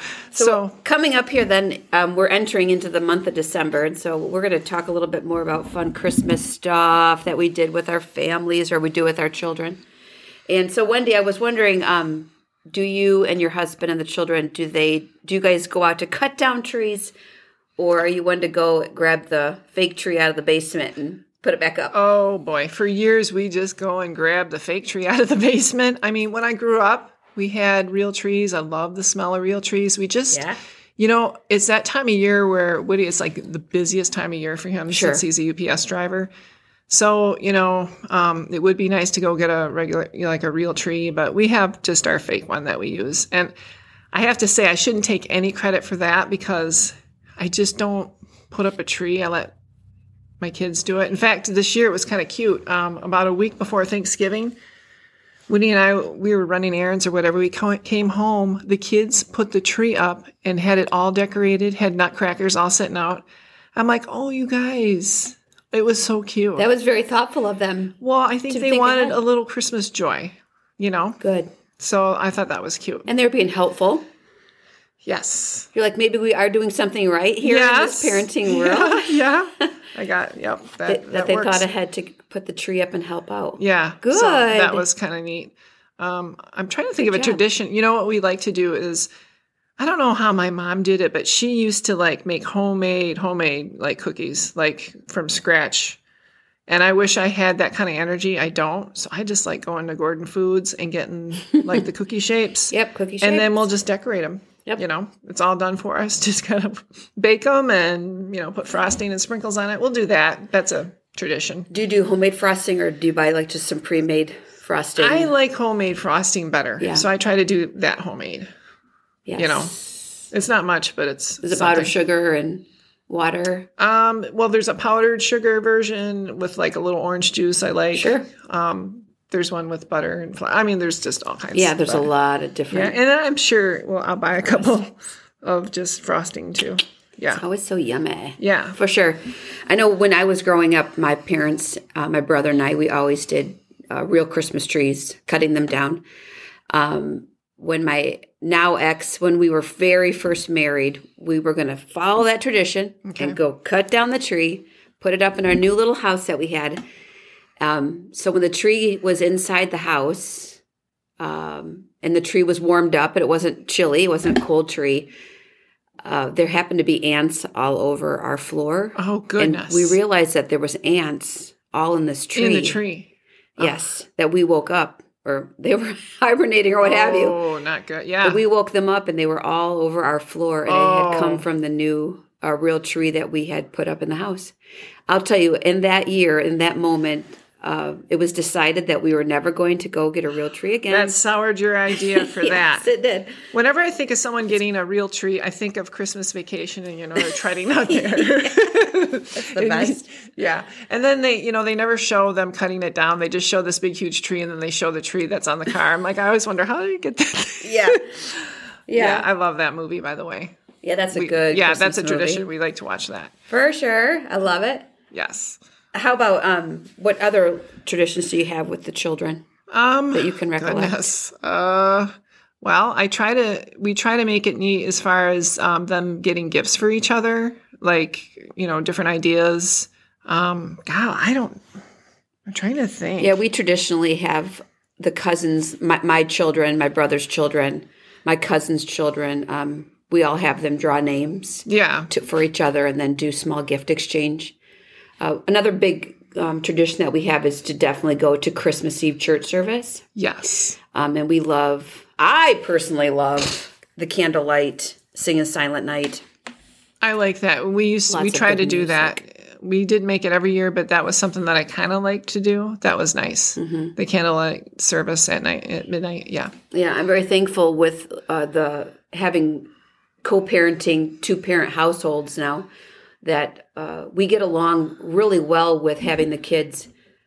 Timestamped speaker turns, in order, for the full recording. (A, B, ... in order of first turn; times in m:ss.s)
0:00.3-0:00.8 A
0:00.4-0:09.8 B
0:10.5-0:17.1 B
0:17.8-0:22.0 B
0:21.9-0:36.3 A
0:30.3-0:30.6 B
0:34.9-0:35.2 B
0:36.9-0:43.5 A
0:44.1-0:49.5 A
0:50.4-0:54.6 A
0:55.5-1:03.2 A
1:03.8-1:06.7 A
1:06.6-1:08.0 B
1:08.0-1:11.2 A
1:08.5-1:09.2 B
1:11.2-1:11.5 B
1:11.8-1:13.1 A
1:13.1-1:14.1 B
1:15.0-1:15.7 A
1:15.7-1:19.7 B
1:17.4-1:21.7 A
1:20.9-1:24.9 B
1:23.6-1:29.1 A
1:27.0-1:27.4 B
1:29.8-1:36.0 A
1:36.7-1:51.7 A
1:42.7-1:43.7 B
1:51.7-1:55.3 B
1:55.0-1:58.5 A
1:56.8-1:57.1 B
1:59.3-2:00.0 B
1:59.4-1:59.8 A
2:00.3-2:01.9 A
2:01.4-2:03.7 B
2:03.8-2:12.1 A
2:08.0-2:08.3 B
2:11.5-2:13.0 B
2:12.7-2:17.4 A
2:17.3-2:26.0 B
2:18.4-2:18.8 A
2:26.7-2:36.8 B
2:33.0-2:33.4 A
2:37.6-2:40.6 B
2:41.2-2:45.1 B
2:46.0-2:52.8 B
2:49.0-2:50.0 A
2:52.4-2:53.8 A
2:53.6-2:57.4 B
2:56.8-2:58.4 A
2:58.2-3:04.5 B
3:00.7-3:01.4 A
3:05.1-3:11.2 B
3:10.9-3:12.9 A
3:12.0-3:13.4 B
3:13.5-3:30.6 A
3:17.9-3:18.7 B
3:19.4-3:20.3 B
3:27.6-3:28.0 B
3:28.9-3:29.3 B
3:30.8-3:32.4 B
3:31.1-3:33.3 A
3:33.5-3:34.9 B
3:35.1-3:35.6 A
3:35.9-3:39.4 B
3:39.7-3:51.6 A
3:40.1-3:41.1 B
3:52.5-3:53.4 A
3:53.2-4:04.6 B
4:01.7-4:02.1 A
4:05.2-4:10.0 B
4:10.2-4:10.8 A
4:10.9-4:16.2 B
4:17.0-4:26.5 A
4:18.1-4:19.2 B
4:23.6-4:24.0 B
4:26.7-4:29.7 B
4:30.2-4:32.7 B
4:33.2-4:36.9 B